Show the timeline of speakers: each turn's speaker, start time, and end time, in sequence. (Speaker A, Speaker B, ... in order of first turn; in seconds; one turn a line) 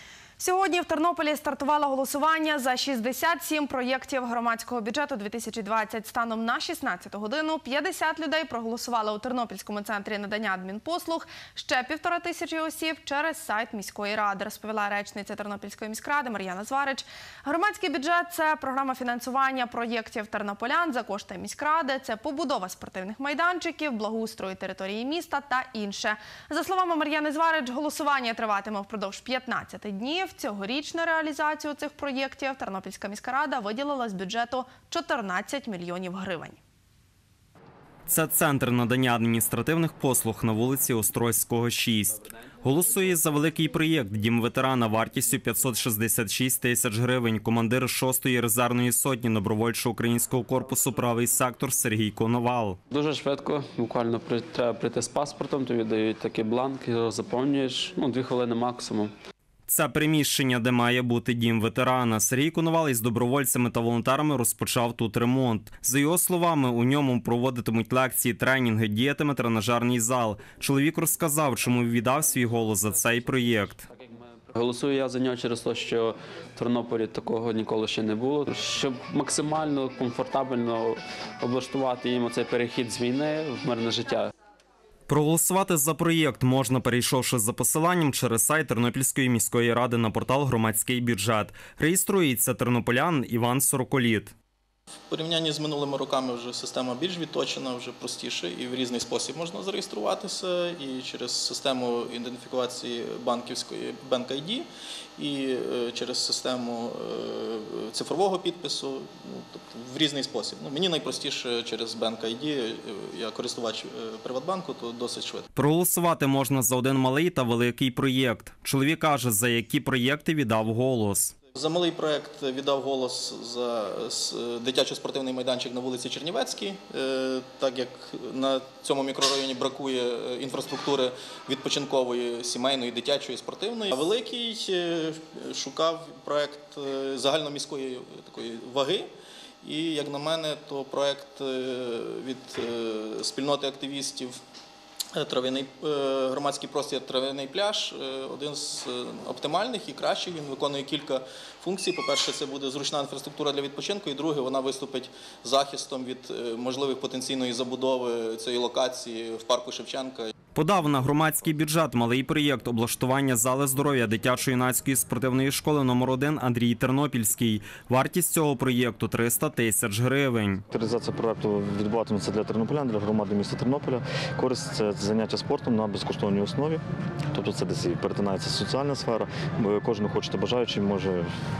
Speaker A: 0.4-36.6
Speaker B: 38.1-52.8
Speaker C: 52.9-59.1
Speaker B: 59.7-73.8
Speaker C: 73.9-84.3
Speaker B: 85.1-94.3
Speaker D: 95.1-115.4
Speaker B: 115.5-121.3
Speaker D: 121.5-139.1
Speaker D: 139.6-144.4
Speaker D: 145.1-160.3
Speaker B: 160.5-170.6
Speaker E: 170.7-181.3